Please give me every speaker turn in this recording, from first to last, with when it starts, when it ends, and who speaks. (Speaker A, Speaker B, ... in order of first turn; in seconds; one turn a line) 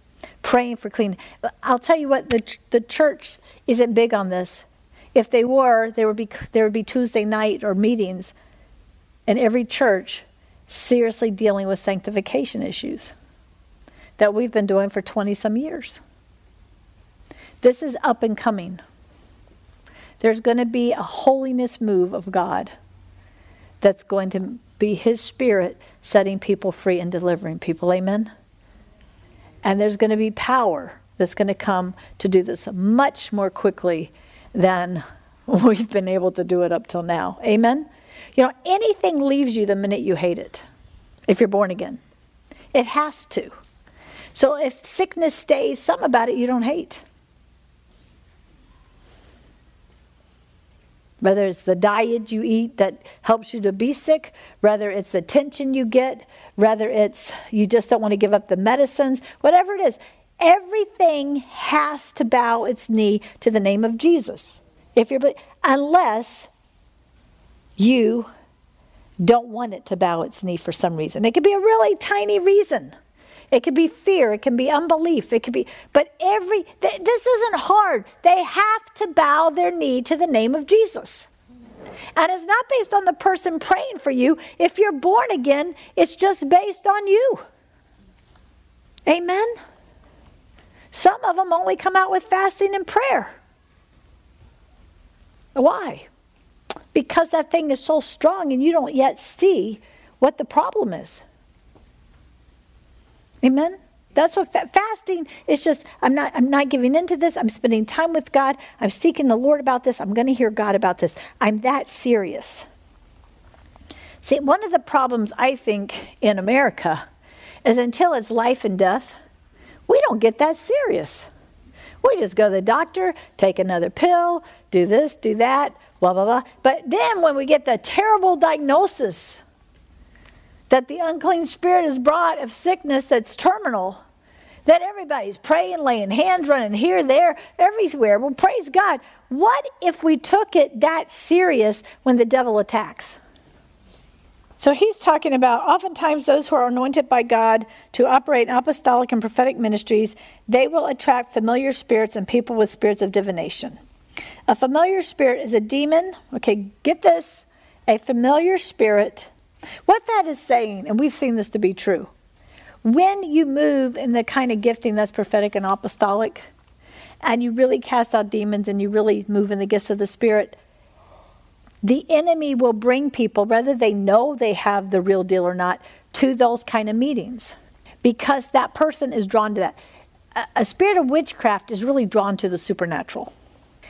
Speaker A: 0.4-8.3
Speaker A: 9.2-13.1
Speaker A: 14.2-16.0
Speaker A: 17.6-18.8
Speaker A: 20.2-22.7
Speaker A: 23.8-28.3
Speaker A: 29.6-40.6
Speaker A: 41.3-42.0
Speaker A: 42.7-43.5
Speaker A: 44.3-47.0
Speaker A: 51.2-66.5
Speaker A: 67.8-68.3
Speaker A: 69.2-72.9
Speaker A: 73.5-81.3
Speaker A: 82.2-87.4
Speaker A: 89.0-89.5
Speaker A: 90.9-93.3
Speaker A: 95.5-96.1
Speaker A: 96.9-101.2
Speaker A: 103.4-112.6
Speaker A: 114.2-117.0
Speaker A: 117.6-119.2
Speaker A: 119.9-121.3
Speaker A: 122.0-129.4
Speaker A: 130.7-134.0
Speaker A: 134.7-143.2
Speaker A: 144.6-153.8
Speaker A: 154.5-159.3
Speaker A: 159.8-162.1
Speaker A: 162.8-166.5
Speaker A: 167.2-170.6
Speaker A: 171.8-179.8
Speaker A: 180.3-183.3